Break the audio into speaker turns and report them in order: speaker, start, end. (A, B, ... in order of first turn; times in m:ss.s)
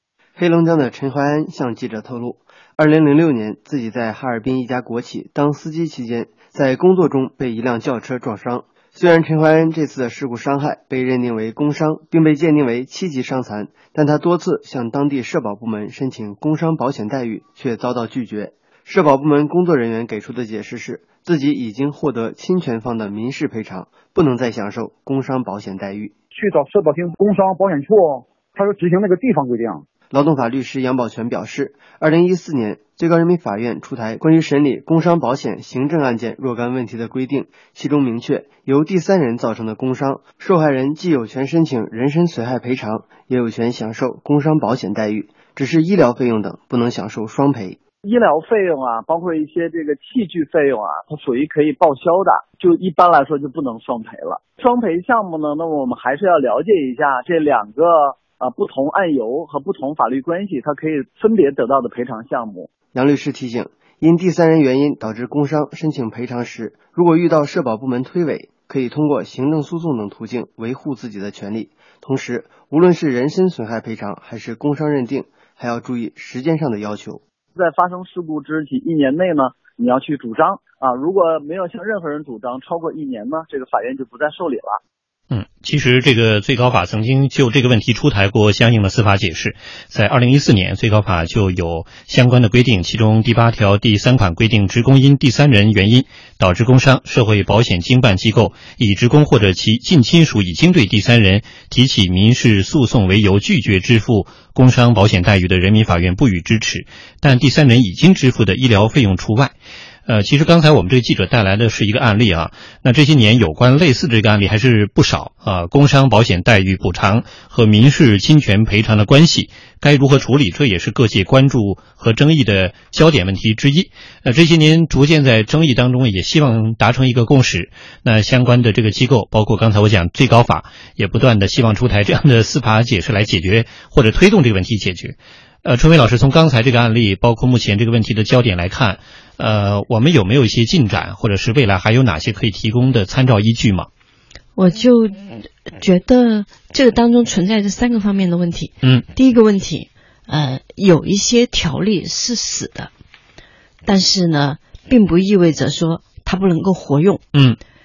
0:00.4-0:26.1 A
0:26.3-0:29.8 B
0:30.1-0:47.8 A
0:48.0-1:02.7 C
1:02.9-1:17.2 A
1:17.5-1:24.8 C
1:25.3-1:49.5 D
1:50.1-2:23.9 D
2:24.6-2:32.9 E
2:33.8-2:37.2 E
2:37.3-2:37.6 D